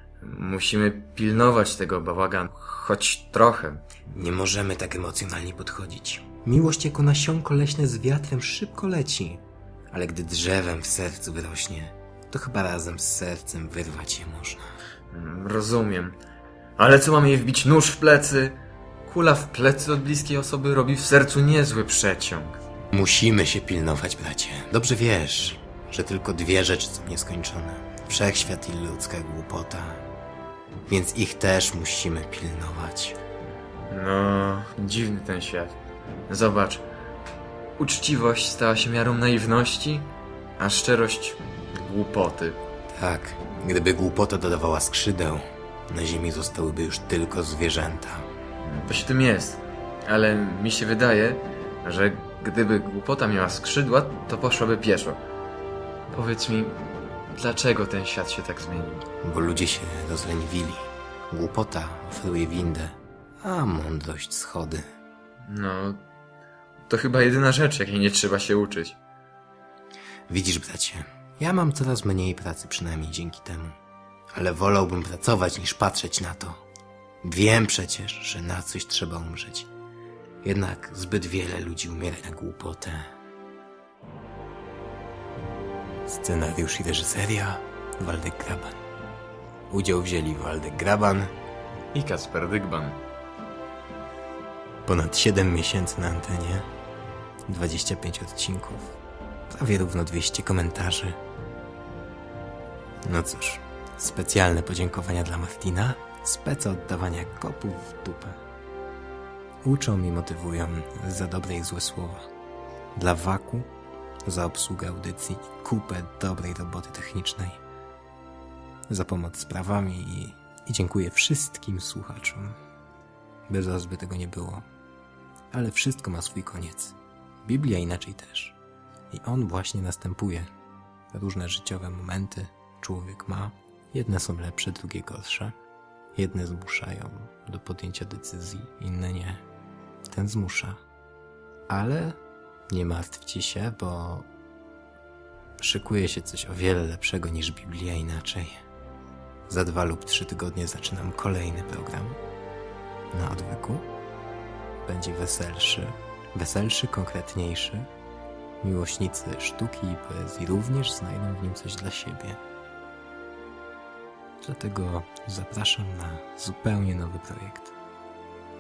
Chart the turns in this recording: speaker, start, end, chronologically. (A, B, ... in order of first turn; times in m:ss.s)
0:00.2-0:03.9 A
0:04.1-0:14.6 B
0:15.1-0:16.2 A
0:16.8-0:22.6 A
0:22.9-0:30.0 B
0:30.9-0:33.2 B
0:33.9-0:35.8 A
0:36.3-0:36.8 A
0:37.8-0:42.6 A
0:42.9-0:48.3 B
0:48.6-0:55.2 A
0:56.1-0:56.8 A
0:57.4-0:59.1 A
0:59.2-1:04.8 B
1:05.5-1:06.0 A
1:06.9-1:09.0 A
1:10.3-1:13.8 B
1:14.3-1:16.6 B
1:17.2-1:19.7 B
1:20.4-1:23.1 B
1:26.1-1:28.8 B
1:29.7-1:31.3 B
1:31.9-1:33.0 A
1:34.9-1:36.7 B
1:37.5-1:39.0 B
1:39.5-1:41.2 B
1:43.1-1:48.4 B
1:49.6-1:52.3 B
1:53.0-1:53.7 B
1:54.3-1:57.6 B
1:58.9-2:02.6 B
2:03.5-2:04.6 B
2:05.5-2:08.6 B
2:09.1-2:10.5 B
2:11.1-2:15.6 B
2:16.2-2:19.4 B
2:20.1-2:20.8 B
2:21.7-2:22.2 B
2:22.7-2:24.3 B
2:25.6-2:28.6 B
2:29.5-2:32.2 B
2:33.1-2:33.9 B
2:34.8-2:37.9 B
2:38.6-2:42.4 B
2:44.4-2:47.8 B